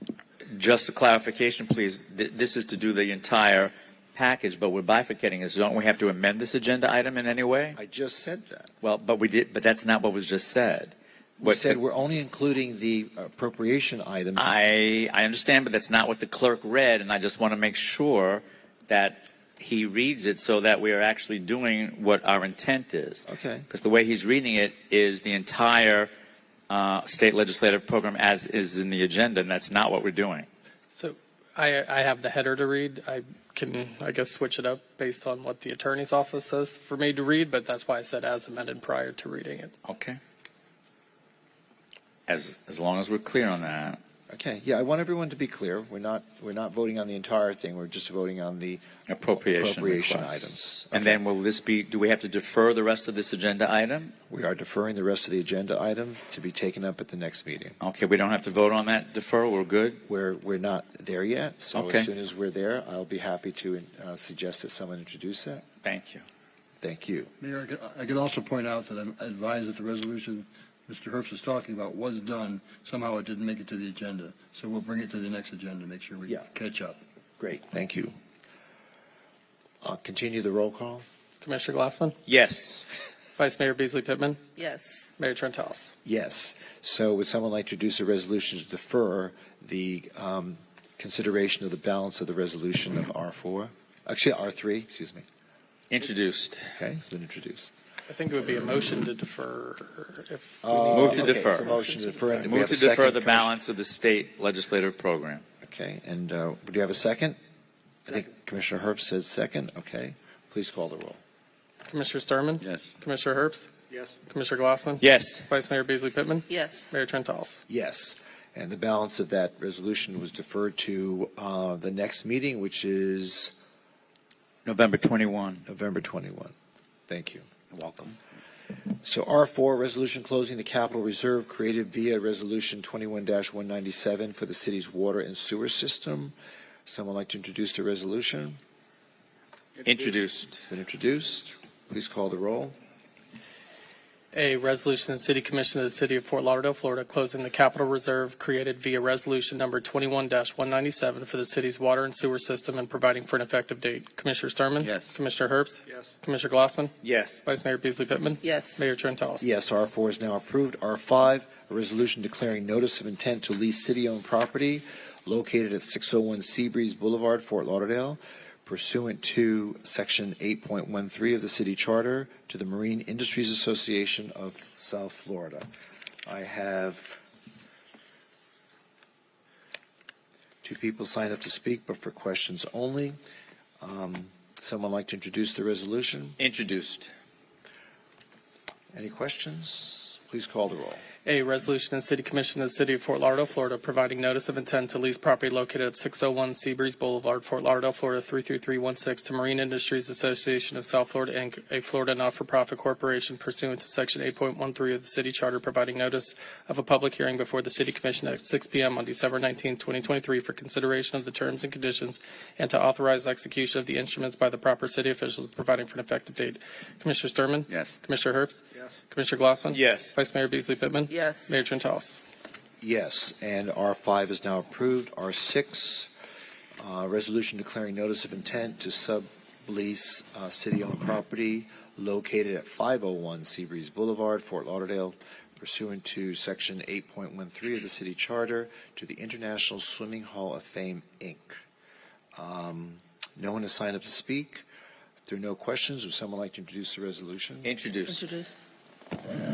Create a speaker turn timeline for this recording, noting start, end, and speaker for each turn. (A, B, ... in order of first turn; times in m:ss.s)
0:00.5-0:07.8 A
0:07.7-0:08.7 B
0:08.8-0:11.8 A
0:11.4-0:14.5 B
0:14.4-0:26.1 A
0:23.2-0:23.7 B
0:26.7-0:30.5 A
0:30.9-0:39.7 C
0:39.8-0:40.2 A
0:42.3-0:44.0 A
0:44.3-0:48.8 B
0:49.1-0:54.1 A
0:49.5-0:51.2 B
0:54.3-0:57.8 B
0:57.8-1:00.0 A
1:00.1-1:05.6 B
1:01.7-1:02.1 A
1:05.8-1:06.2 A
1:06.8-1:07.3 B
1:07.4-1:17.0 D
1:17.4-1:18.1 B
1:19.8-1:21.0 B
1:21.4-1:22.2 C
1:22.2-1:22.8 A
1:23.4-1:24.4 C
1:24.6-1:25.1 E
1:25.2-1:25.9 C
1:26.0-1:35.2 B
1:35.9-1:36.7 A
1:36.8-1:37.7 B
1:38.1-1:41.8 C
1:40.6-1:43.6 B
1:40.9-1:41.7 A
1:41.7-1:42.4 E
1:42.4-1:45.4 A
1:45.6-1:47.4 B
1:48.0-1:51.2 B
1:51.9-1:53.7 C
1:52.6-1:52.9 A
1:54.2-1:57.6 C
1:55.0-1:55.4 A
1:56.5-1:56.9 E
1:57.7-2:03.5 B
2:04.6-2:05.6 A
2:05.6-2:06.5 B
2:07.1-2:08.2 B
2:08.8-2:16.3 B
2:16.8-2:18.6 B
2:19.8-2:20.6 A
2:20.7-2:22.8 B
2:24.3-2:36.9 C
2:34.8-2:35.2 A
2:37.0-2:37.4 A
2:37.4-2:39.5 C
2:38.4-2:38.8 E
2:39.4-2:55.7 B
2:56.2-2:57.2 B
3:00.6-3:03.2 B
3:03.8-3:06.4 B
3:06.4-3:07.1 A
3:08.9-3:11.0 B
3:11.2-3:42.2 C
3:37.7-3:38.0 A
3:39.7-3:40.1 A
3:41.1-3:41.6 E
3:42.8-3:46.1 B
3:46.8-4:01.6 B
4:02.3-4:04.6 B
4:05.2-4:07.7 B
4:07.6-4:08.2 A
4:08.1-4:08.6 E